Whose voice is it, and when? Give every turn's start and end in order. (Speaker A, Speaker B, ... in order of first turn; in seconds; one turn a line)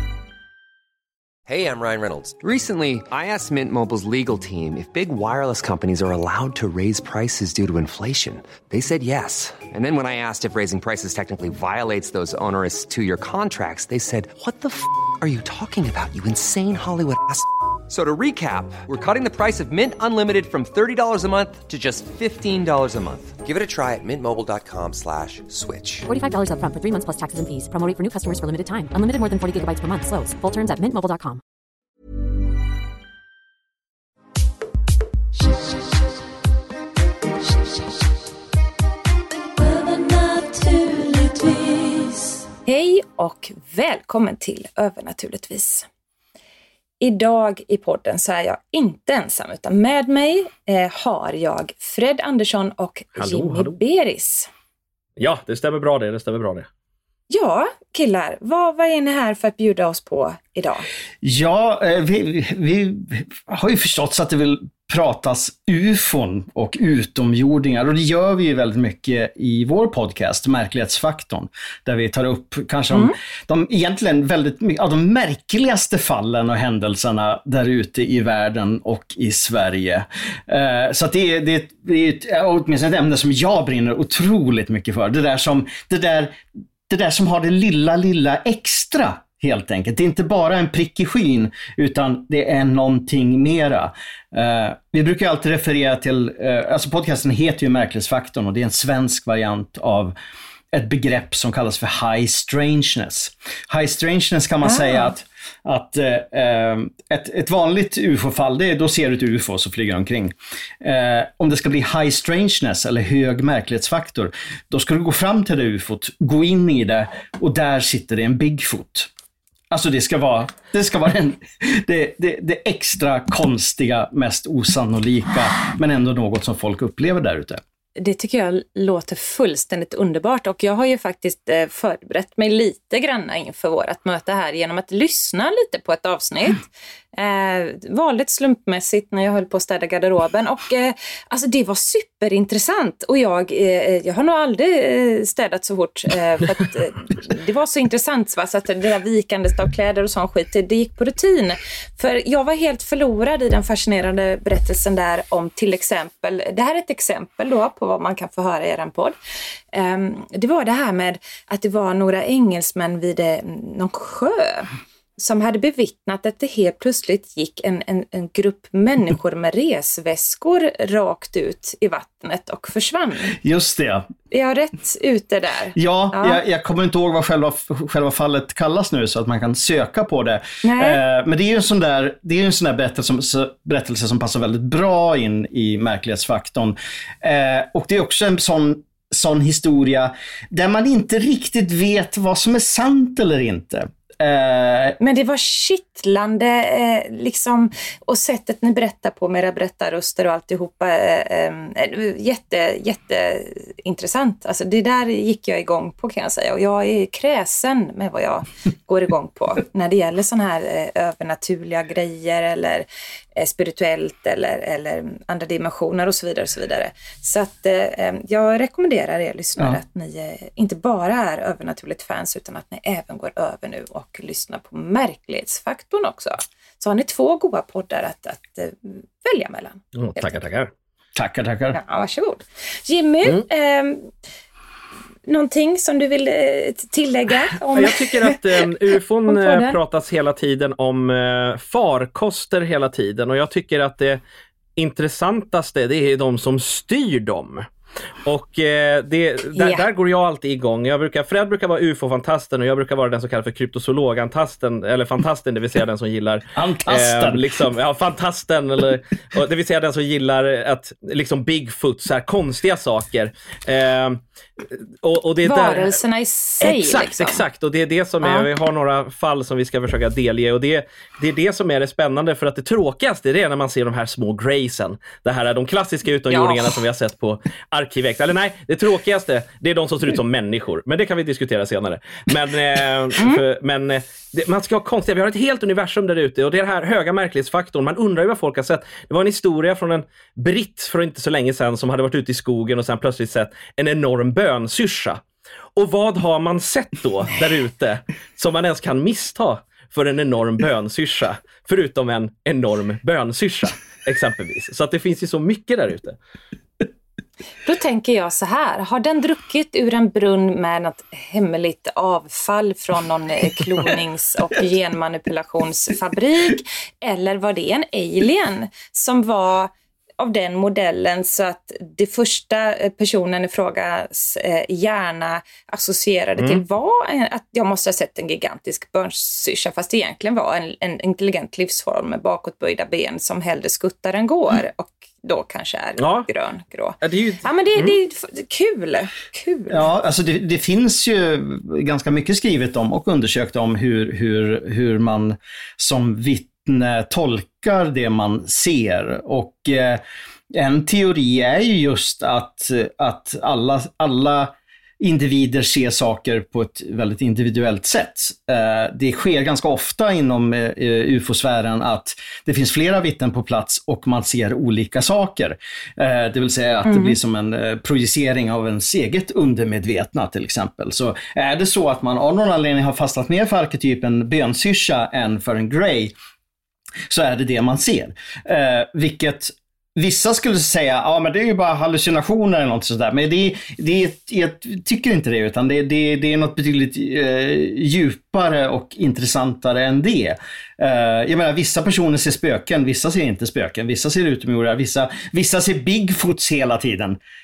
Speaker A: 1.5-26.1
Speaker B: 26.1-31.4
Speaker C: 39.5-45.9
Speaker C: 47.0-54.5
Speaker D: 53.1-53.7
Speaker D: 55.2-56.7
Speaker C: 57.3-60.9
Speaker E: 61.2-100.1
Speaker E: 100.7-119.1
Speaker C: 104.6-105.1
Speaker E: 119.7-127.6
Speaker C: 128.0-159.2
Speaker C: 159.7-173.4
Speaker E: 173.3-174.1
Speaker C: 174.3-176.4
Speaker E: 175.8-195.0
Speaker C: 180.6-181.0
Speaker C: 195.0-230.4
Speaker D: 229.9-230.7
Speaker E: 231.2-231.8
Speaker C: 231.7-234.1
Speaker C: 235.2-238.4
Speaker D: 237.8-244.2
Speaker C: 239.3-239.8
Speaker D: 244.8-247.7
Speaker D: 248.2-266.0
Speaker C: 249.5-249.8
Speaker E: 256.5-257.6
Speaker C: 265.4-267.4
Speaker D: 266.6-295.2
Speaker C: 268.2-268.5
Speaker C: 276.3-276.7
Speaker D: 295.8-306.2
Speaker C: 307.6-339.9
Speaker D: 336.0-336.3
Speaker D: 337.0-337.9
Speaker E: 339.7-376.1
Speaker C: 366.9-367.2
Speaker E: 377.1-397.2